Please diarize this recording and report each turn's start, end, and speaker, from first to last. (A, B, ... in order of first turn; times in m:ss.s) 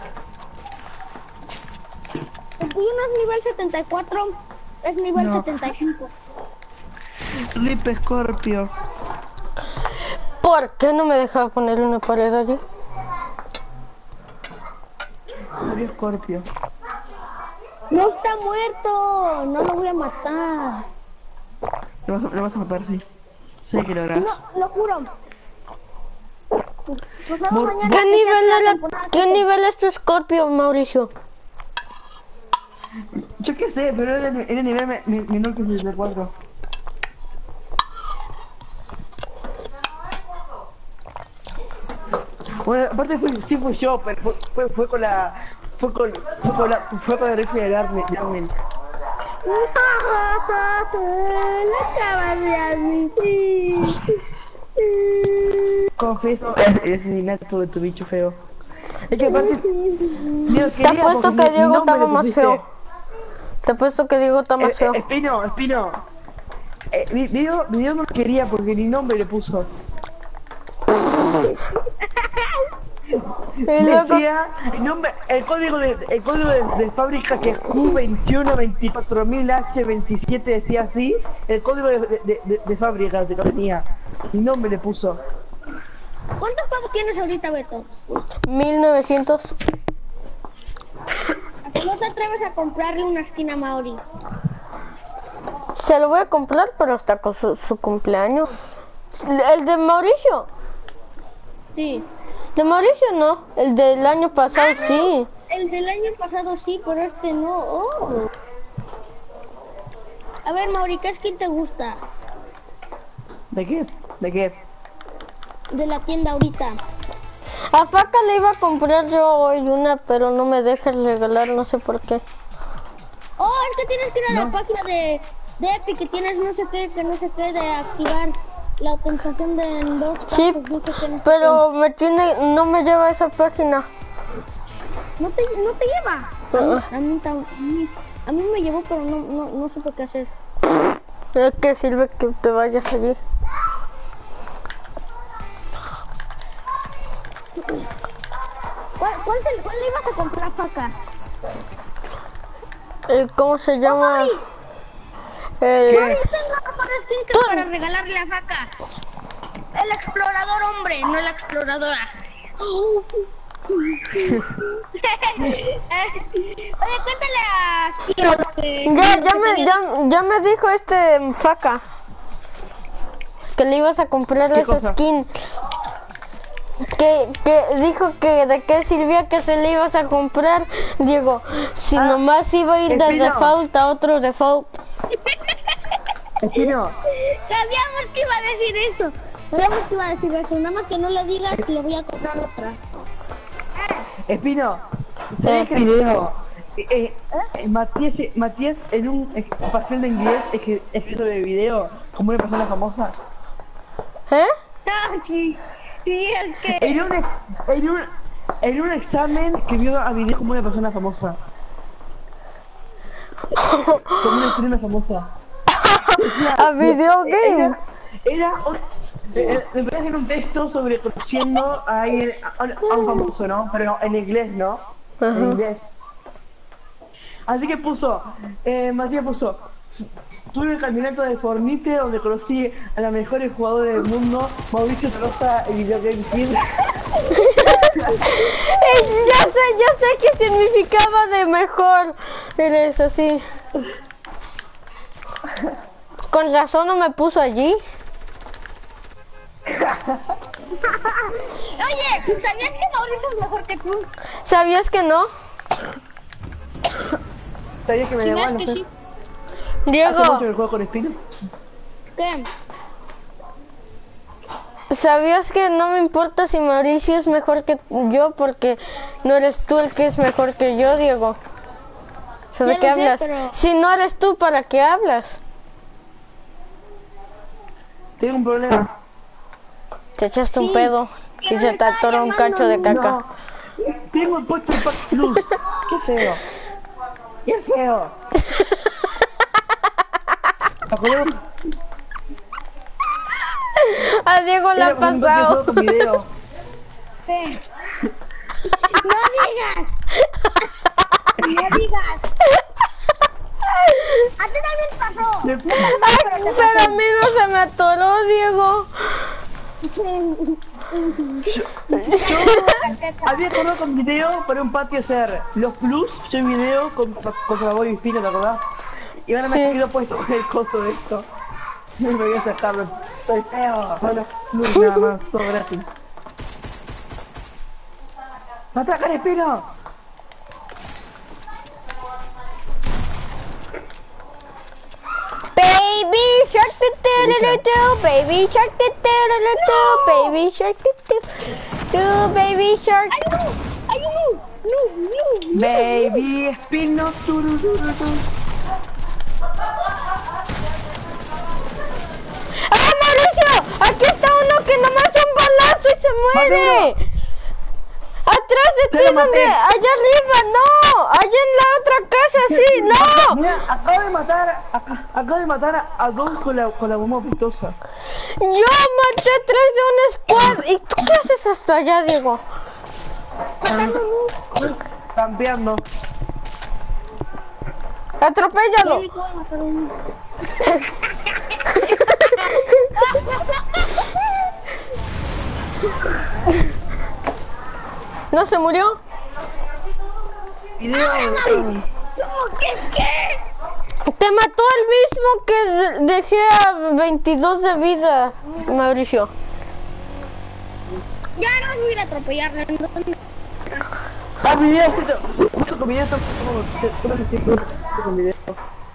0:02.6-0:06.1 A
0:05.1-0:05.6 B
0:07.5-0:08.7 B
0:10.4-0:12.6 C
0:15.5-0:16.5 B
0:17.9-0:20.8 A
0:22.1-0:23.0 B
0:23.6-0:24.4 B
0:24.2-0:25.1 A
0:27.1-0:29.4 A
0:27.5-0:28.0 B
0:27.8-0:31.1 C
0:33.4-0:36.3 B
0:42.6-0:48.5 B
0:49.4-0:54.0 A
0:54.8-0:55.6 A
0:56.0-0:58.4 B
0:59.1-0:59.6 B
0:59.2-1:00.6 A
1:00.5-1:02.6 B
1:00.8-1:02.6 C
1:03.6-1:05.0 C
1:04.6-1:06.0 B
1:06.9-1:09.7 B
1:13.1-1:25.2 B
1:13.7-1:14.2 C
1:26.4-1:27.9 A
1:28.4-1:29.6 C
1:31.6-1:34.0 A
1:35.7-1:38.5 C
1:39.1-1:40.5 C
1:41.7-1:42.0 A
1:42.6-1:45.3 C
1:44.6-1:48.3 A
1:50.4-1:52.0 A
1:53.5-1:54.6 B
1:55.7-1:56.8 A
1:57.7-2:02.2 C
2:03.4-2:11.6 A
2:04.3-2:04.5 B
2:10.3-2:10.6 C
2:11.2-2:13.9 C
2:15.2-2:20.3 A
2:16.5-2:16.9 C
2:21.3-2:23.2 C
2:29.0-2:30.9 A
2:33.1-2:34.3 C
2:33.8-2:34.4 A
2:35.6-2:36.2 C
2:35.9-2:38.7 A
2:37.3-2:37.7 C
2:39.7-2:42.2 A
2:42.8-2:43.0 A
2:43.9-2:44.4 A
2:45.4-2:49.8 A
2:48.8-2:51.8 C
2:53.6-2:55.5 C
2:54.5-2:55.0 B
2:56.8-3:04.8 C
3:02.9-3:03.5 B
3:05.1-3:05.4 A
3:06.4-3:07.0 B
3:07.3-3:12.8 A
3:14.3-3:23.1 B
3:15.4-3:15.9 C
3:24.3-3:24.5 C
3:24.8-3:26.9 A
3:26.7-3:28.1 B
3:28.6-3:31.4 B
3:33.6-3:34.6 C
3:34.2-3:35.3 B
3:35.7-3:37.8 C
3:36.2-3:45.9 B
3:42.8-3:43.3 A
3:45.2-3:45.6 C
3:47.5-3:49.6 B
3:50.5-3:56.6 B
3:57.3-4:03.4 C
3:57.8-3:58.4 B
3:59.0-3:59.3 A
4:06.3-4:07.8 C
4:09.7-4:10.2 B
4:10.8-4:14.1 A
4:14.4-4:15.3 C
4:17.8-4:18.8 B
4:18.2-4:18.9 A
4:19.8-4:20.5 C
4:20.0-4:21.2 B
4:22.2-4:22.5 A
4:24.9-4:31.4 C
4:32.5-4:35.4 C
4:32.6-4:33.6 A
4:38.2-4:38.9 B
4:40.2-4:43.2 C
4:40.5-4:40.9 A
4:41.4-4:43.0 A
4:42.9-4:46.4 B
4:47.4-4:48.1 B
4:48.4-4:49.0 C
4:50.9-4:51.4 B
4:53.8-4:56.2 C
4:54.8-4:56.3 B
4:58.7-4:59.9 A
5:01.4-5:02.2 A
5:03.7-5:04.3 C
5:04.4-5:07.0 A
5:05.4-5:06.0 B
5:05.8-5:09.3 C
5:09.8-5:11.4 A
5:11.4-5:18.6 B
5:11.9-5:12.8 C
5:12.4-5:13.3 A
5:19.2-5:21.2 B
5:19.4-5:19.8 C
5:22.0-5:25.8 B
5:24.7-5:25.1 C
5:28.7-5:29.6 B
5:35.5-5:43.2 C
5:37.2-5:37.6 B
5:39.6-5:40.3 A
5:43.1-5:46.2 A
5:45.5-5:48.2 B
5:52.6-5:57.0 C
5:56.3-5:56.9 B
5:58.2-6:03.5 C
5:58.9-5:59.6 B
6:02.5-6:07.8 B
6:08.2-6:12.4 C
6:10.3-6:10.6 B
6:13.6-6:14.0 B
6:13.7-6:14.3 A
6:14.6-6:15.8 B
6:18.2-6:19.0 C
6:18.8-6:19.9 A
6:21.7-6:22.9 C
6:23.0-6:24.1 A
6:28.3-6:29.0 C
6:30.8-6:31.8 B
6:30.9-6:31.6 A
6:32.2-6:33.4 A
6:34.0-6:39.3 C
6:41.4-6:43.2 A
6:44.4-6:48.6 B